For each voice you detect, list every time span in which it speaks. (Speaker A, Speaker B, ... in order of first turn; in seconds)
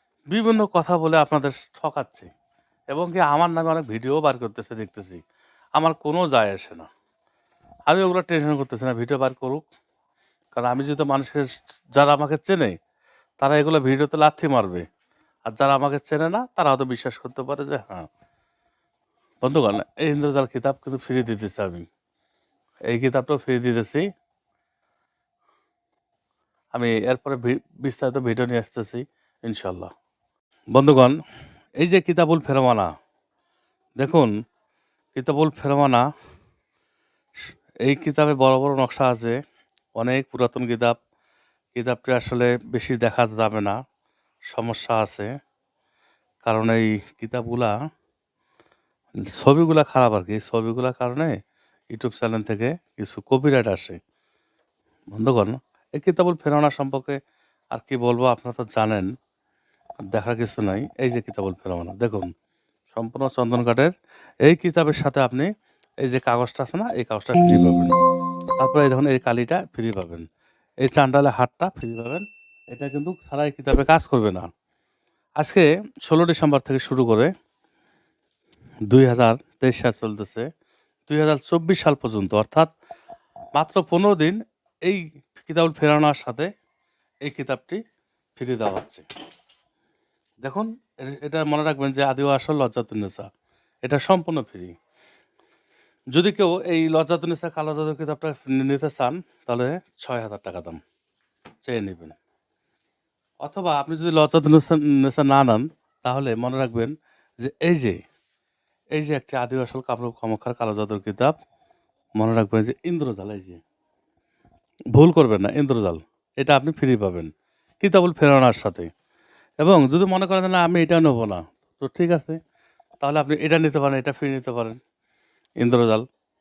Speaker A: 0.3-2.3, 2.9-5.2, 5.8-6.9, 7.9-9.6, 10.6-12.8, 13.4-14.8, 15.5-18.1, 19.4-21.9, 22.9-24.0, 26.7-29.9, 30.7-31.2, 31.8-32.9, 34.0-34.3, 35.1-36.0, 37.8-39.4, 40.0-41.0, 41.7-43.8, 44.5-45.3, 46.4-47.7, 49.3-51.4, 51.9-54.0, 55.1-57.2, 57.7-59.1, 60.1-62.3, 62.9-63.9, 64.5-65.5, 66.0-67.9, 68.6-70.3, 70.8-74.5, 75.4-77.3, 78.9-80.5, 81.1-82.7, 83.6-86.5, 87.3-87.8, 88.4-89.0, 90.4-93.3, 93.8-94.7, 96.1-100.8, 101.7-102.2, 103.4-108.0, 109.0-111.3, 112.2-113.6, 115.0-117.3, 117.8-118.9, 119.6-122.4, 123.0-124.8, 125.6-126.0